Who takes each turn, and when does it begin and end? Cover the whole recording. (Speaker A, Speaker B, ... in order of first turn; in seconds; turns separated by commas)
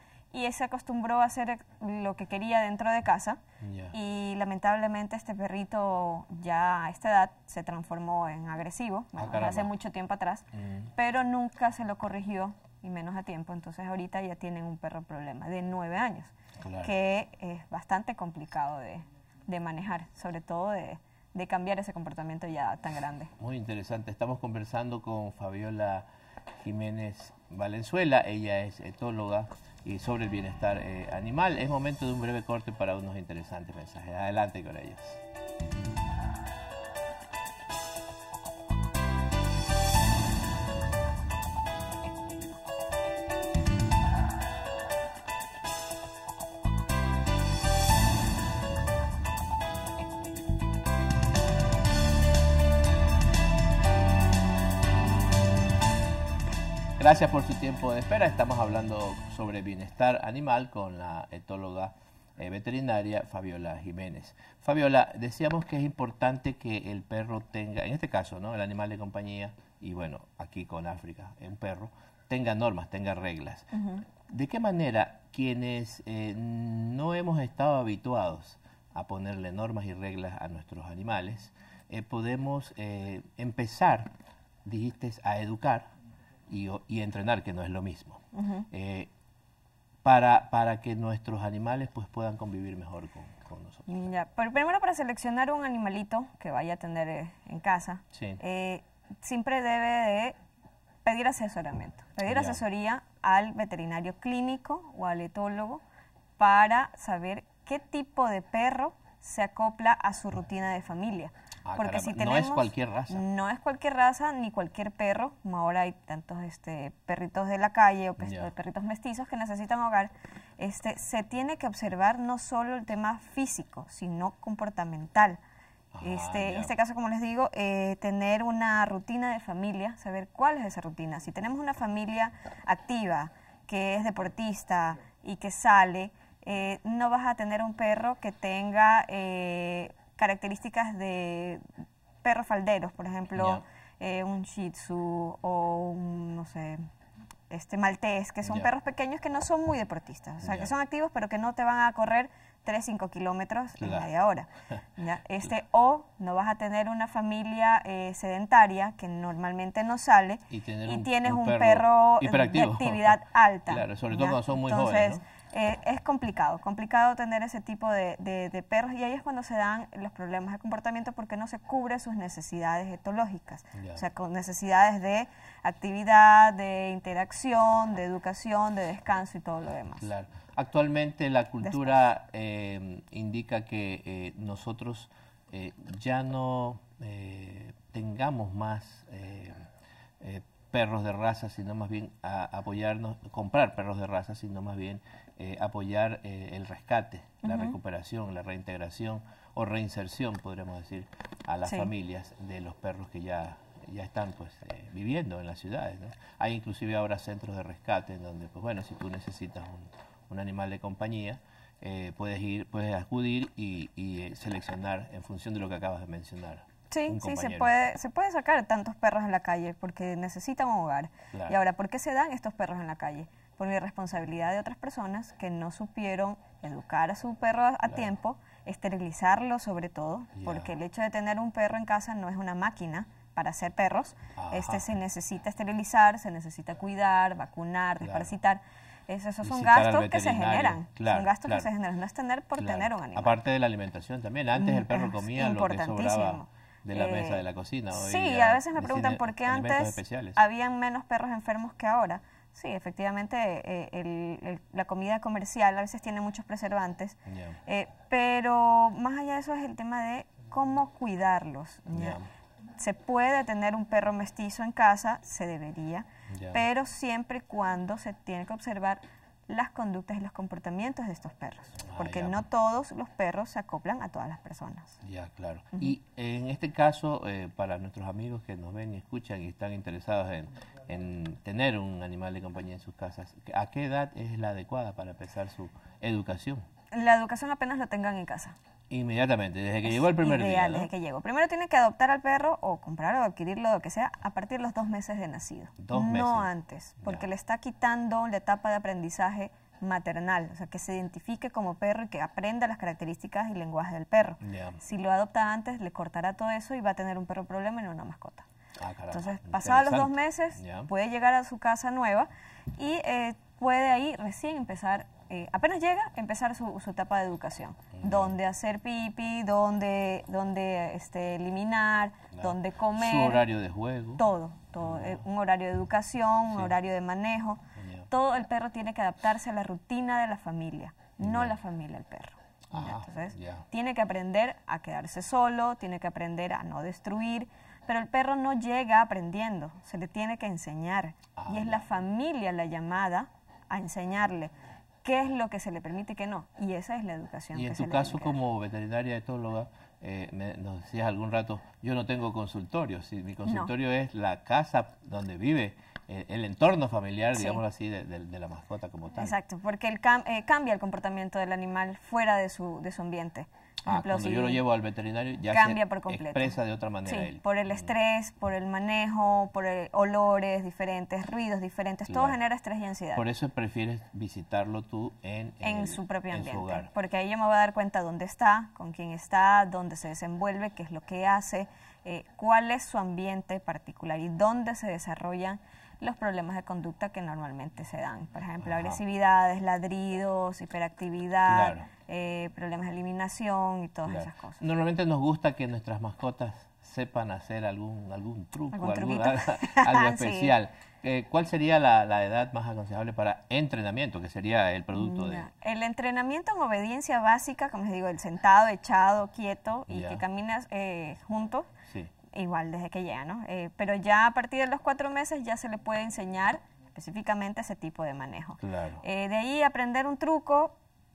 Speaker A: 0.3-3.4, Speaker B: 3.6-4.0, Speaker A: 3.9-23.3, Speaker B: 9.2-9.7, Speaker B: 10.6-10.9, Speaker B: 16.6-16.9, Speaker B: 23.4-26.1, Speaker B: 26.6-35.2, Speaker B: 57.0-84.1, Speaker A: 73.7-74.0, Speaker B: 84.7-85.9, Speaker B: 86.5-89.1, Speaker A: 88.3-88.7, Speaker B: 90.0-93.8, Speaker A: 93.9-100.4, Speaker B: 98.1-98.4, Speaker A: 101.0-105.8, Speaker B: 102.3-102.6, Speaker A: 106.4-125.4, Speaker B: 111.7-113.2, Speaker B: 118.2-118.5, Speaker B: 125.9-126.7, Speaker A: 126.0-141.6, Speaker A: 142.2-146.8, Speaker B: 143.4-143.6, Speaker A: 147.5-180.1, Speaker B: 150.4-150.7, Speaker B: 153.8-154.1, Speaker B: 160.5-165.2, Speaker B: 173.8-174.0, Speaker B: 180.0-189.7, Speaker A: 181.6-181.9, Speaker B: 190.2-217.7, Speaker A: 197.4-197.8, Speaker A: 216.9-243.4, Speaker B: 230.4-230.7, Speaker B: 234.4-234.9, Speaker B: 238.0-238.3, Speaker B: 239.4-241.7, Speaker B: 242.6-250.4, Speaker A: 244.6-262.2, Speaker B: 257.3-257.6, Speaker B: 261.9-262.2, Speaker A: 262.8-275.0, Speaker B: 266.3-266.6, Speaker B: 271.9-272.4, Speaker B: 275.0-286.6, Speaker A: 286.9-288.6, Speaker B: 288.9-290.9, Speaker A: 289.9-308.5, Speaker B: 295.8-296.5, Speaker B: 304.4-304.8, Speaker B: 308.8-310.9, Speaker A: 309.1-323.4, Speaker B: 317.9-318.4, Speaker B: 322.4-324.2, Speaker A: 324.2-344.5, Speaker B: 324.8-325.2, Speaker B: 327.8-328.1, Speaker B: 331.2-331.6, Speaker B: 332.7-333.7, Speaker B: 341.4-341.9, Speaker A: 345.0-348.4, Speaker B: 347.5-359.4, Speaker A: 353.4-353.7, Speaker A: 357.4-357.6, Speaker A: 359.2-364.6, Speaker B: 363.9-367.9, Speaker A: 365.5-373.2, Speaker B: 372.1-372.4, Speaker B: 373.1-376.9, Speaker A: 375.6-394.6, Speaker B: 388.6-389.0, Speaker B: 391.5-391.9, Speaker B: 394.1-405.5, Speaker A: 398.7-400.5, Speaker A: 404.9-411.7, Speaker B: 409.9-410.2, Speaker A: 412.3-420.8, Speaker B: 418.6-419.0